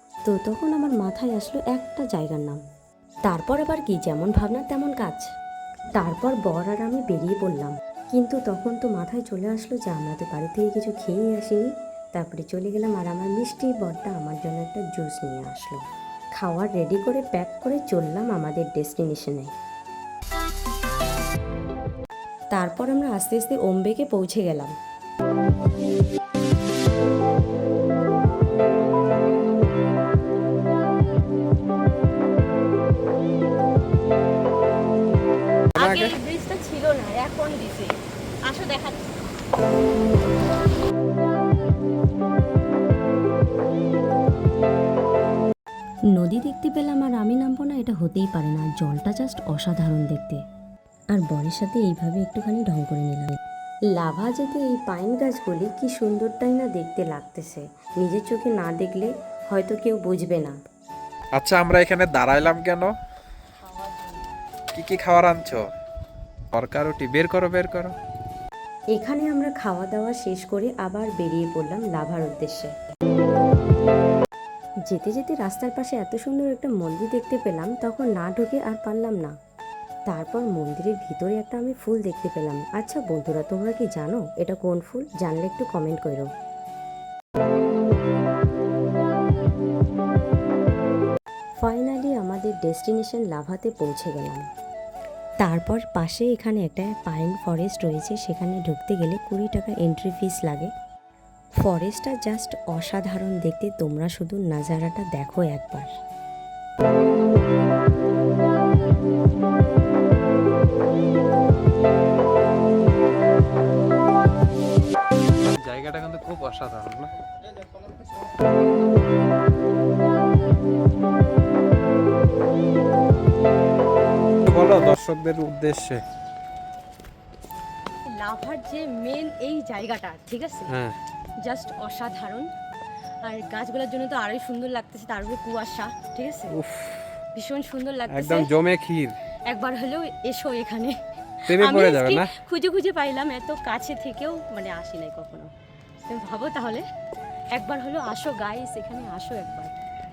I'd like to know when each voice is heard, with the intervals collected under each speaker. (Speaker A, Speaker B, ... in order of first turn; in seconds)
Speaker A: 0.3-2.6, 3.3-5.3, 6.0-15.8, 16.4-19.5, 22.5-24.7, 46.1-50.4, 51.1-53.4, 53.9-60.5, 68.9-72.7, 74.9-79.3, 80.1-86.3, 91.6-94.5, 95.4-100.7, 101.6-105.9
Speaker B: 35.8-36.1, 61.4-62.9, 64.7-65.6, 66.5-67.9, 115.5-117.1, 124.5-126.0, 136.6-137.0, 138.1-139.1, 141.5-142.3
Speaker C: 35.8-37.9, 38.5-39.1, 63.7-64.2, 128.1-130.8, 131.4-132.5, 133.2-136.5, 137.3-138.5, 139.5-140.9, 141.5-145.5, 146.1-146.8, 147.5-149.7